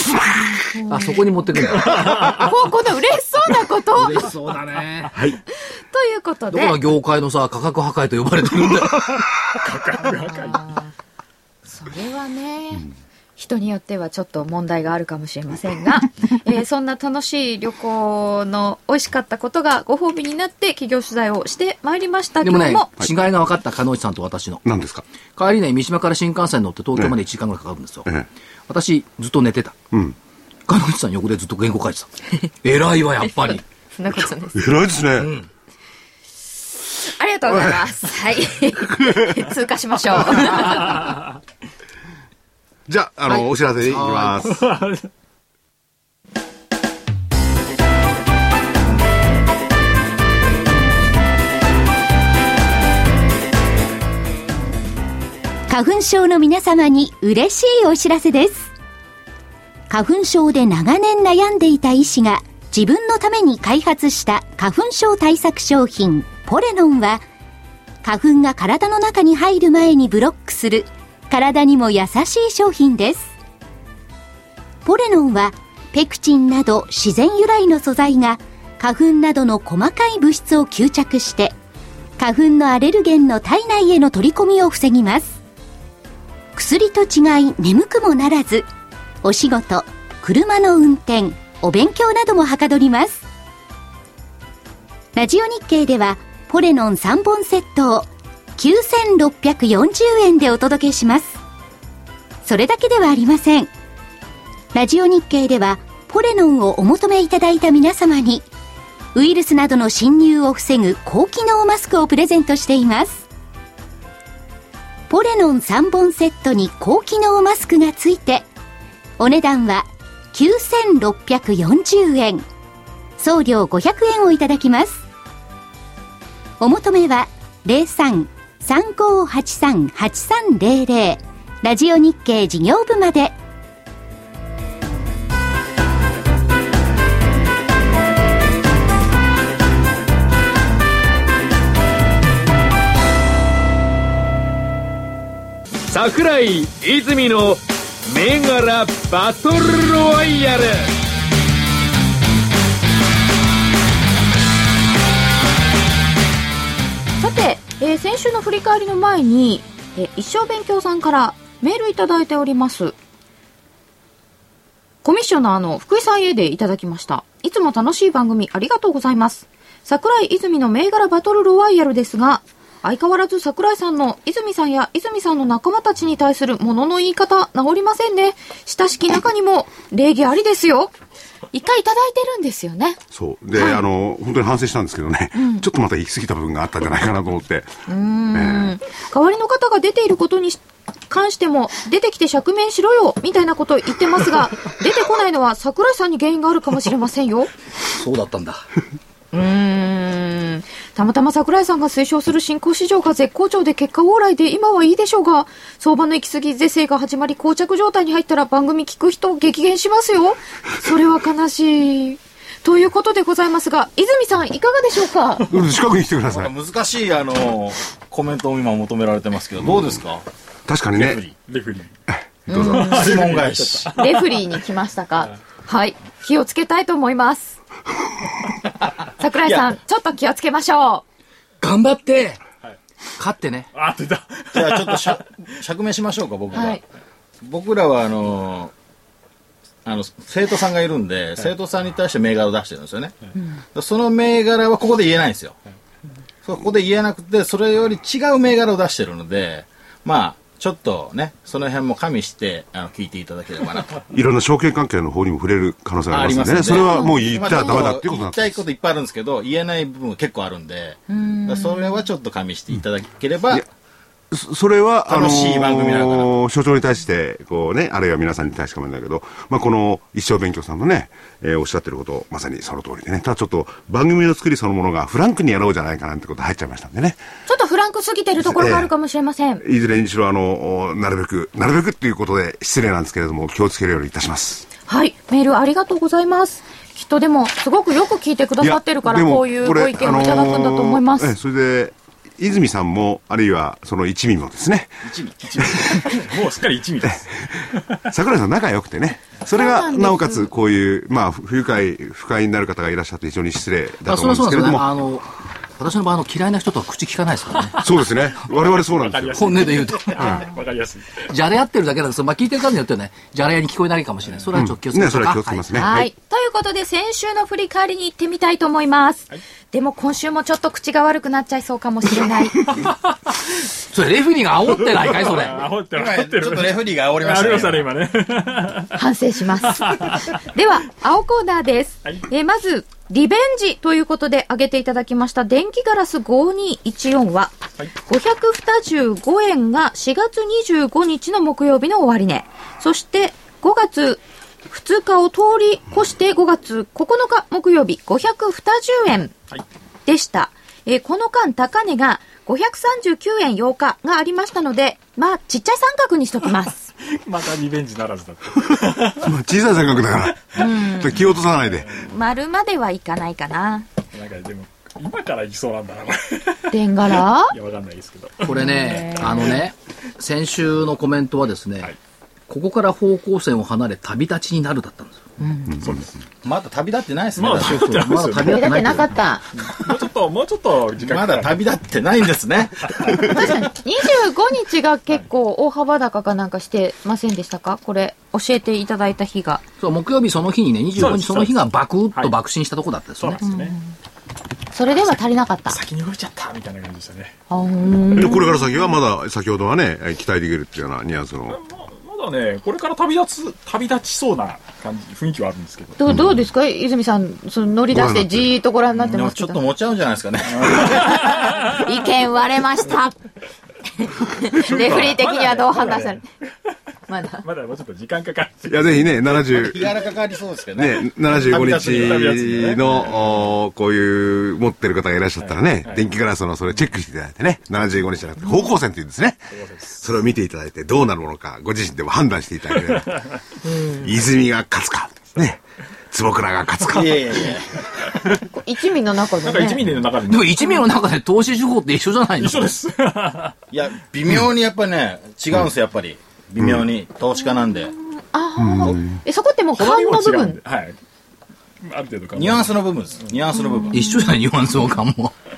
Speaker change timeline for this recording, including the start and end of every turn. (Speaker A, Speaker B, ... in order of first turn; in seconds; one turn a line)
Speaker A: 0.5-4.3
Speaker B: 0.9-2.2
Speaker C: 1.9-2.5
Speaker B: 3.9-5.1
Speaker D: 5.1-5.4
Speaker A: 5.6-6.8
Speaker B: 6.5-9.2
Speaker C: 9.6-10.7
Speaker A: 10.2-10.9
Speaker A: 11.7-22.9
Speaker B: 22.4-24.6
Speaker D: 24.6-25.0
Speaker B: 25.4-28.1
Speaker B: 28.7-29.8
Speaker B: 30.7-33.6
Speaker A: 34.0-34.6
Speaker D: 34.5-35.3
Speaker B: 35.2-35.5
Speaker A: 37.0-41.1
Speaker D: 37.5-37.9
Speaker D: 38.8-39.4
Speaker D: 42.9-44.7
Speaker B: 43.3-44.4
Speaker C: 44.5-45.1
Speaker E: 55.7-58.7
Speaker E: 59.9-67.2
Speaker E: 68.0-73.3
Speaker E: 74.8-81.5
Speaker E: 82.2-85.4
Speaker E: 86.5-88.7
Speaker E: 89.2-93.2
Speaker E: 95.2-101.4
Speaker E: 102.4-103.7
Speaker E: 104.7-108.5
Speaker E: 109.1-113.2
Speaker E: 115.1-118.5
Speaker E: 119.2-122.5
Speaker E: 123.2-125.0
Speaker E: 126.6-133.4
Speaker F: 145.9-150.9
Speaker A: 157.2-162.9
Speaker A: 165.0-180.9
Speaker A: 181.5-183.0
Speaker D: 183.1-187.7
Speaker A: 183.6-183.8
Speaker A: 185.3-185.7
Speaker A: 187.9-197.5
Speaker D: 188.3-188.8
Speaker B: 197.9-198.7
Speaker A: 199.3-215.6
Speaker D: 215.4-216.5
Speaker G: 216.2-220.2
Speaker D: 220.7-221.2
Speaker G: 220.9-221.3
Speaker C: 221.5-221.9
Speaker A: 222.5-223.2
Speaker D: 222.5-222.8
Speaker G: 222.5-223.9
Speaker C: 222.6-224.4
Speaker A: 223.9-227.6
Speaker A: 229.2-231.0
Speaker G: 229.4-229.7
Speaker B: 231.6-232.4
Speaker B: 233.2-233.7
Speaker C: 233.7-235.2
Speaker G: 234.5-236.8
Speaker A: 236.5-236.8
Speaker G: 237.4-238.7
Speaker G: 239.8-243.2
Speaker G: 243.7-245.6
Speaker G: 246.4-254.0
Speaker D: 254.1-258.6
Speaker G: 256.1-263.7
Speaker A: 256.8-257.9
Speaker A: 261.1-262.1
Speaker D: 264.3-277.2
Speaker G: 265.1-266.3
Speaker A: 277.5-279.6
Speaker D: 278.4-278.9
Speaker D: 279.6-284.7
Speaker A: 284.9-291.3
Speaker D: 288.6-295.1
Speaker G: 295.0-295.8
Speaker D: 295.6-296.0
Speaker C: 295.8-298.0
Speaker D: 298.0-304.9
Speaker A: 299.5-300.5
Speaker B: 304.1-305.3
Speaker B: 305.8-307.8
Speaker C: 307.7-311.3
Speaker D: 307.8-309.6
Speaker B: 309.3-310.3
Speaker B: 311.3-315.8
Speaker D: 314.5-316.1
Speaker A: 315.7-322.7
Speaker B: 323.9-325.6
Speaker C: 324.9-329.0
Speaker G: 325.9-327.9
Speaker A: 328.9-337.5
Speaker C: 329.6-330.4
Speaker A: 338.1-349.3
Speaker A: 350.1-356.9
Speaker C: 357.0-360.4
Speaker D: 359.0-362.0
Speaker A: 360.6-361.2
Speaker C: 361.2-362.1
Speaker A: 361.9-363.9
Speaker C: 364.1-368.5
Speaker A: 366.7-367.5
Speaker B: 368.4-371.9
Speaker A: 368.5-369.6
Speaker B: 372.5-375.2
Speaker A: 375.4-375.8
Speaker C: 375.8-376.1
Speaker G: 376.4-377.9
Speaker C: 377.4-378.8
Speaker B: 377.5-379.2
Speaker A: 378.4-379.5
Speaker C: 379.6-381.7
Speaker G: 381.0-383.6
Speaker C: 382.9-383.2
Speaker A: 383.2-389.6
Speaker B: 389.8-393.4
Speaker C: 391.0-391.6
Speaker C: 393.2-393.8
Speaker A: 393.4-393.9
Speaker A: 394.7-395.8
Speaker C: 395.7-397.3
Speaker A: 397.5-398.9
Speaker D: 398.1-401.6
Speaker C: 401.5-406.0
Speaker A: 406.0-409.6
Speaker D: 406.1-406.4
Speaker D: 407.9-408.5
Speaker G: 408.9-411.3
Speaker C: 410.5-411.8
Speaker A: 411.3-413.1
Speaker A: 414.0-416.2
Speaker C: 414.5-416.5
Speaker A: 417.1-417.4
Speaker C: 417.4-419.4
Speaker D: 418.7-420.0
Speaker G: 419.3-422.8
Speaker D: 420.8-433.1
Speaker C: 421.3-423.5
Speaker C: 425.4-426.1
Speaker C: 429.5-430.0
Speaker C: 432.8-433.4
Speaker A: 433.6-434.1
Speaker D: 433.9-437.4
Speaker G: 436.9-437.8
Speaker A: 438.4-439.9
Speaker C: 439.4-440.9
Speaker B: 440.3-442.7
Speaker C: 442.4-443.6
Speaker G: 443.7-447.9
Speaker D: 446.6-446.8
Speaker A: 447.4-450.6
Speaker D: 448.6-449.2
Speaker C: 449.7-451.0
Speaker C: 451.8-453.4
Speaker G: 452.3-454.0
Speaker A: 453.5-454.4
Speaker B: 453.9-455.3